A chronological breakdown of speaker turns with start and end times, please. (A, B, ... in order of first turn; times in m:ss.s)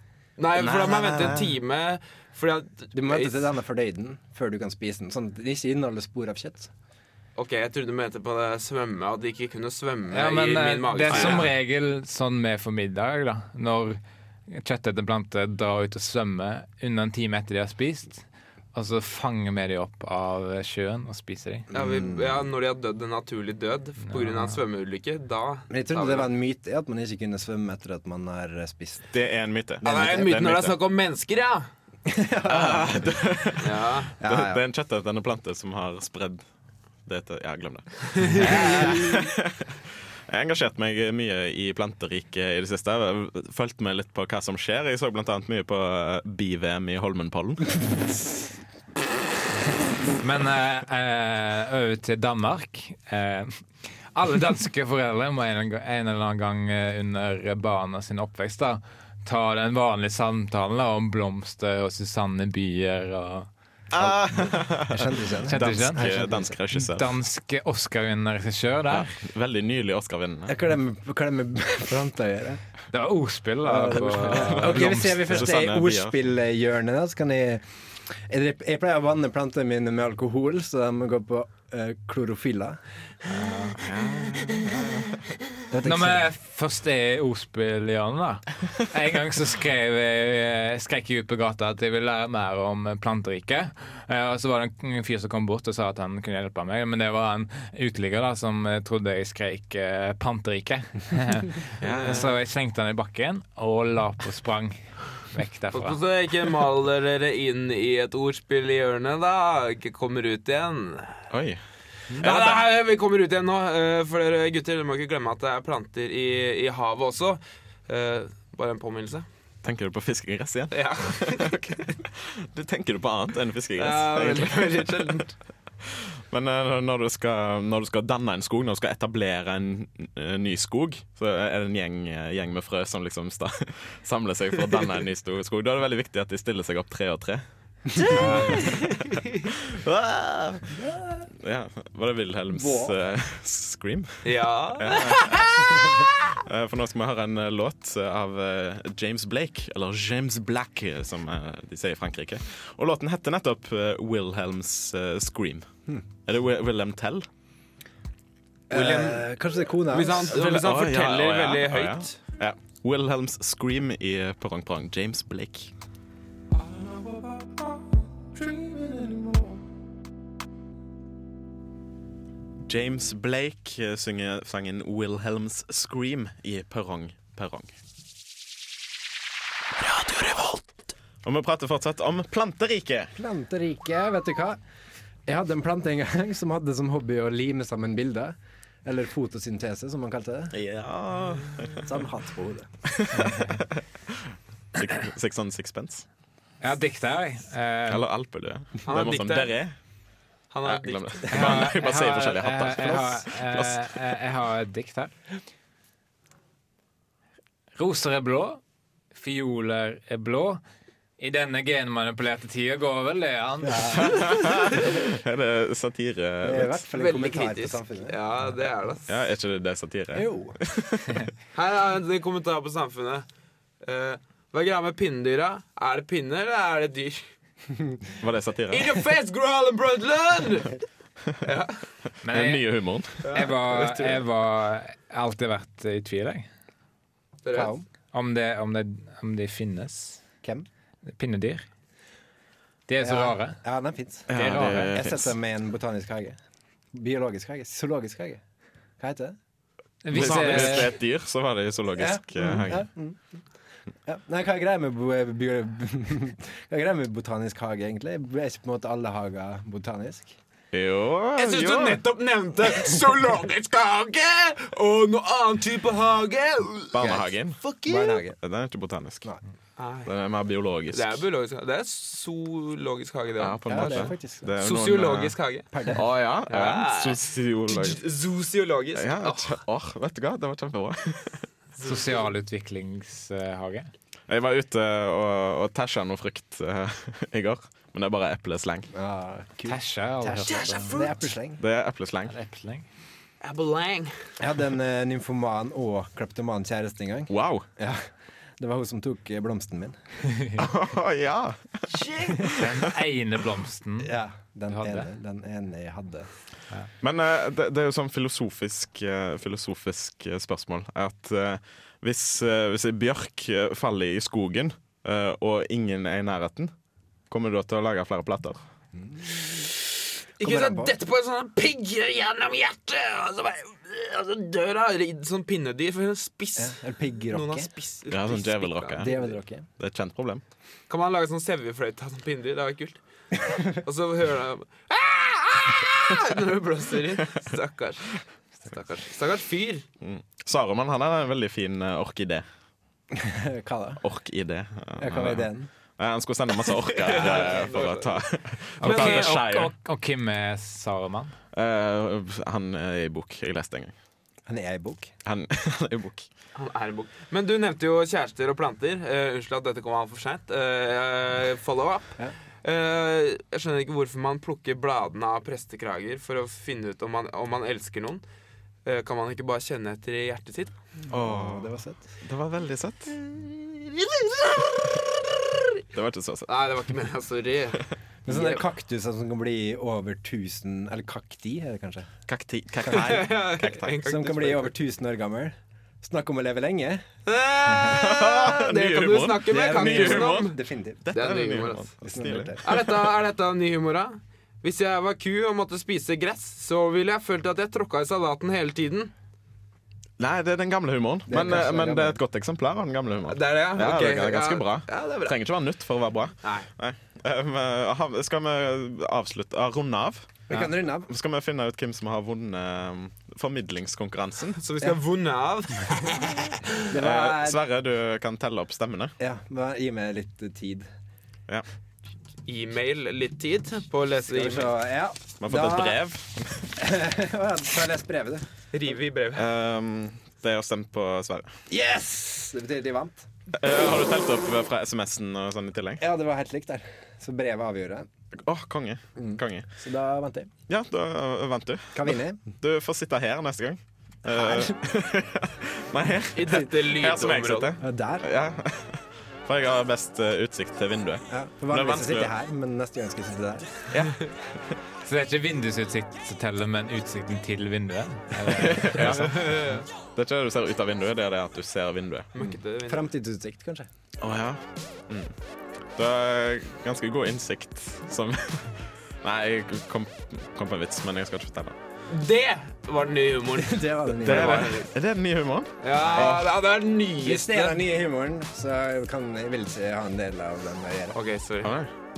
0:00.4-0:03.4 A
0:00.5-0:01.5 B
0:02.9-0:06.7 C
0:07.4-0:11.5 A
0:10.1-0:14.0 D
0:14.5-0:21.6 D
0:21.7-0:26.3 A
0:21.7-0:22.2 C
0:24.1-0:24.6 D
0:25.7-0:29.1 C
0:29.1-0:30.8 B
0:29.8-0:31.7 A
0:32.0-0:33.1 C
0:32.5-0:36.4 B
0:33.6-0:34.1 A
0:34.2-0:34.6 C
0:37.0-0:39.7 B
0:38.2-0:38.9 A
0:38.4-0:39.2 C
0:40.3-0:47.9 B
0:50.2-0:53.6 D
0:54.1-1:03.5 D
1:03.9-1:07.1 B
1:04.0-1:06.6 C
1:05.5-1:06.2 D
1:06.7-1:09.1 D
1:08.9-1:10.5 B
1:10.5-1:12.6 C
1:12.9-1:15.4 D
1:13.6-1:22.8 C
1:14.1-1:16.1 B
1:23.2-1:24.8 D
1:23.8-1:25.0 B
1:25.7-1:26.3 C
1:25.8-1:46.0 D
1:41.8-1:42.3 B
1:41.9-1:42.2 A
1:45.7-1:51.2 A
1:51.3-1:51.6 B
1:52.2-1:52.6 B
1:52.2-1:59.2 A
1:59.6-2:05.0 B
2:00.7-2:01.9 A
2:03.8-2:05.4 A
2:06.3-2:17.4 B
2:17.9-2:18.5 C
2:18.0-2:19.4 A
2:18.1-2:20.7 B
2:20.8-2:21.2 C
2:21.4-2:35.6 B
2:22.5-2:22.9 C
2:24.2-2:25.8 A
2:36.3-2:37.2 B
2:38.7-2:40.3 C
2:38.7-2:39.2 A
2:39.9-2:42.2 A
2:40.3-2:45.7 B
2:46.6-2:47.4 B
2:48.4-2:49.5 B
2:52.6-2:57.7 B
3:01.2-3:03.1 B
3:03.2-3:04.6 C
3:05.2-3:10.5 C
3:10.5-3:11.9 B
3:11.8-3:12.7 C
3:12.9-3:16.0 B
3:13.1-3:13.6 D
3:16.6-3:18.1 D
3:17.9-3:19.8 B
3:18.9-3:19.6 A
3:20.5-3:21.6 A
3:20.6-3:23.8 B
3:21.3-3:25.1 D
3:27.8-3:28.6 D
3:29.1-3:30.6 D
3:31.2-3:34.1 D
3:33.6-3:34.1 C
3:34.0-3:36.8 B
3:36.4-3:38.2 C
3:36.9-3:39.1 A
3:39.1-3:41.3 B
3:40.1-3:40.6 C
3:41.5-3:43.2 A
3:43.8-3:47.3 A
3:48.2-3:48.9 B
3:48.7-3:50.8 A
3:51.4-3:51.8 A
3:52.2-3:52.6 D
3:52.2-3:53.3 B
3:53.2-3:54.2 A
3:53.3-3:56.5 D
3:57.4-3:57.7 A
3:57.5-3:57.8 C
3:58.1-4:00.2 D
4:01.1-4:01.7 D
4:02.9-4:03.6 D
4:03.0-4:06.4 C
4:04.3-4:05.3 B
4:04.3-4:05.0 D
4:06.9-4:08.4 C
4:09.0-4:09.4 C
4:10.0-4:10.9 D
4:10.1-4:12.8 B
4:10.1-4:10.9 C
4:12.0-4:13.2 C
4:14.0-4:20.4 C
4:20.7-4:22.0 B
4:21.4-4:28.2 A
4:26.9-4:27.6 B
4:27.0-4:27.3 C
4:27.8-4:28.4 C
4:28.4-4:29.3 B
4:29.8-4:30.1 A
4:30.0-4:31.2 B
4:30.9-4:35.7 A
4:33.4-4:35.4 B
4:33.7-4:34.5 C
4:35.7-4:36.1 C
4:35.9-4:38.0 B
4:36.5-4:39.6 A
4:39.0-4:41.4 B
4:41.8-4:42.1 A
4:41.8-4:43.9 D
4:44.3-4:48.9 B
4:48.9-4:51.6 C
4:49.7-4:51.0 D
4:50.4-4:51.2 A
4:51.6-4:52.3 B
4:52.2-4:52.8 D
4:53.4-4:54.1 A
4:54.4-4:58.0 C
4:57.3-4:57.6 B
4:58.6-5:00.0 C
5:00.6-5:01.8 B
5:01.9-5:02.4 A
5:02.4-5:02.8 B
5:02.4-5:04.1 D
5:04.0-5:06.3 C
5:04.7-5:05.1 D
5:07.0-5:16.7 B
5:17.3-5:18.6 B
5:19.0-5:19.7 C
5:20.4-5:29.3 A
5:20.4-5:20.9 C
5:26.6-5:27.7 C
5:28.1-5:29.1 B
5:29.0-5:29.6 C
5:29.8-5:30.4 B
5:30.9-5:33.0 A
5:33.6-5:39.8 A
5:40.0-5:42.4 B
5:43.1-5:44.0 C
5:44.0-5:49.7 B
5:45.0-5:45.7 C
5:46.8-5:48.2 A
5:48.8-5:49.3 A
5:48.8-5:51.3 D
5:51.5-5:53.9 B
5:54.5-5:55.1 C
5:55.2-5:56.3 B
5:56.5-6:08.2 A
6:08.8-6:10.8 A
6:11.1-6:12.0 C
6:11.1-6:13.1 B
6:15.9-6:16.5 B
6:16.5-6:18.6 A
6:18.2-6:22.1 C
6:22.3-6:24.0 B
6:22.9-6:24.7 A
6:24.0-6:27.0 C
6:27.2-6:30.6 A
6:27.6-6:28.0 C
6:27.9-6:32.9 B
6:29.5-6:31.0 C
6:31.1-6:31.9 A
6:32.0-6:32.6 C
6:32.6-6:39.1 A
6:40.2-6:50.4 B
6:41.3-6:42.2 C
6:43.3-6:45.4 A
6:46.4-6:46.7 A
6:50.5-6:51.1 C
6:51.1-6:54.6 B
6:54.6-6:56.6 A
6:56.9-6:57.6 C
6:57.0-6:59.1 B
6:59.2-7:00.9 C
7:02.4-7:04.7 A
7:04.3-7:06.0 C
7:05.4-7:06.7 B
7:06.8-7:08.4 C
7:08.7-7:09.4 A
7:09.3-7:11.5 B
7:11.7-7:13.3 C
7:13.5-7:16.0 B
7:16.0-7:18.1 C
7:18.4-7:19.6 B
7:19.2-7:20.5 C
7:20.7-7:32.3 B
7:21.9-7:22.4 C
7:24.3-7:24.8 C
7:26.4-7:27.7 A
7:27.8-7:28.2 C
7:31.3-7:33.9 C
7:33.9-7:34.2 B
7:35.0-7:39.4 D
7:38.4-7:39.5 B
7:39.0-7:39.8 A
7:40.0-7:42.3 B
7:42.3-7:43.1 A
7:42.4-7:43.9 C
7:44.2-7:45.3 B
7:46.0-7:51.8 B
7:52.1-7:54.9 A
7:53.6-7:54.7 C
7:54.2-7:56.4 B
7:55.8-7:57.8 A
7:56.0-7:56.4 C
7:57.2-8:01.2 C
8:01.1-8:01.7 A
8:01.6-8:01.9 B